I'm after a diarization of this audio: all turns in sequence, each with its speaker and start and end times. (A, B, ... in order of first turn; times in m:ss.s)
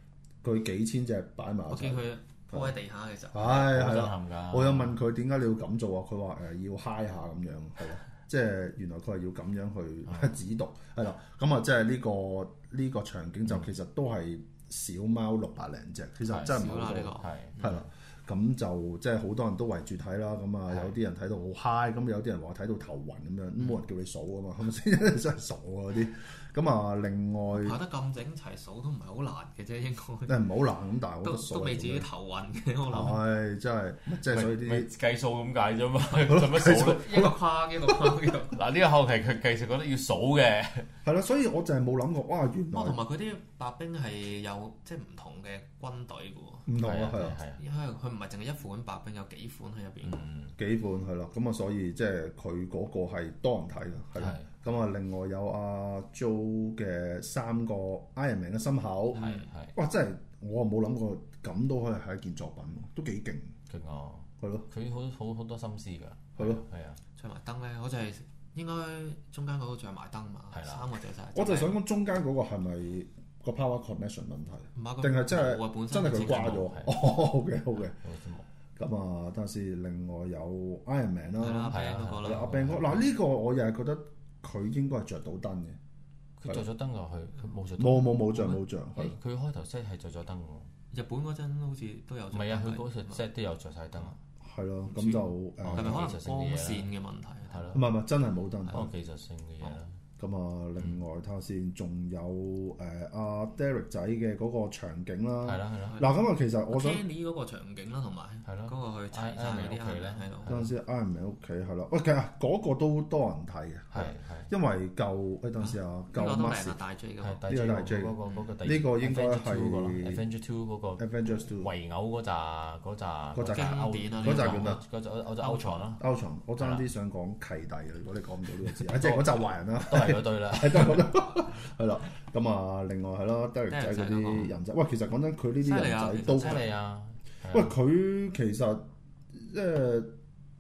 0:00.4-0:02.7 A
0:01.7-0:03.7 B
0:03.3-0:27.8 A
0:03.5-0:05.0 C
0:10.1-0:10.4 C
0:16.3-0:17.6 C
0:16.3-0:17.9 B
0:20.7-0:20.9 C
0:27.5-0:30.4 B
0:30.3-0:32.1 A
0:31.2-0:33.2 B
0:32.9-0:34.9 A
0:34.3-0:37.3 C
0:36.2-0:37.3 A
0:36.7-0:38.6 B
0:38.5-0:40.9 C
0:41.0-0:43.0 A
0:42.7-0:46.7 B
0:46.7-0:47.4 A
0:46.8-0:47.6 C
0:47.6-0:50.2 B
0:50.0-0:50.6 C
0:50.6-1:03.5 A
0:54.2-0:54.5 C
0:59.1-0:59.5 B
0:59.1-0:59.8 C
1:03.7-1:07.0 C
1:04.4-1:04.7 A
1:06.4-1:06.6 A
1:07.2-1:11.8 B
1:10.5-1:10.9 C
1:11.3-1:18.0 A
1:14.8-1:16.7 B
1:16.2-1:17.0 C
1:18.0-1:18.5 C
1:18.8-1:25.8 A
1:21.4-1:22.7 B
1:21.7-1:23.0 C
1:26.4-1:30.7 C
1:27.8-1:29.2 A
1:30.9-1:33.2 B
1:32.3-1:34.2 C
1:34.4-1:36.1 A
1:34.9-1:37.8 B
1:35.6-1:36.9 C
1:37.5-1:37.8 C
1:37.7-1:38.9 A
1:38.7-1:39.9 C
1:40.2-1:47.0 A
1:45.4-1:46.0 C
1:45.9-1:46.2 B
1:46.7-1:50.5 B
1:48.5-1:50.7 C
1:50.5-1:56.8 A
1:53.9-1:54.5 C
1:55.6-1:57.4 B
1:57.2-2:06.0 C
1:57.5-2:00.2 A
2:01.0-2:01.7 A
2:03.3-2:04.8 A
2:03.5-2:04.8 B
2:05.4-2:05.8 B
2:06.0-2:16.7 A
2:06.6-2:06.8 C
2:08.8-2:11.2 C
2:13.7-2:14.6 B
2:15.6-2:16.7 B
2:16.2-2:17.7 C
2:17.5-2:20.2 A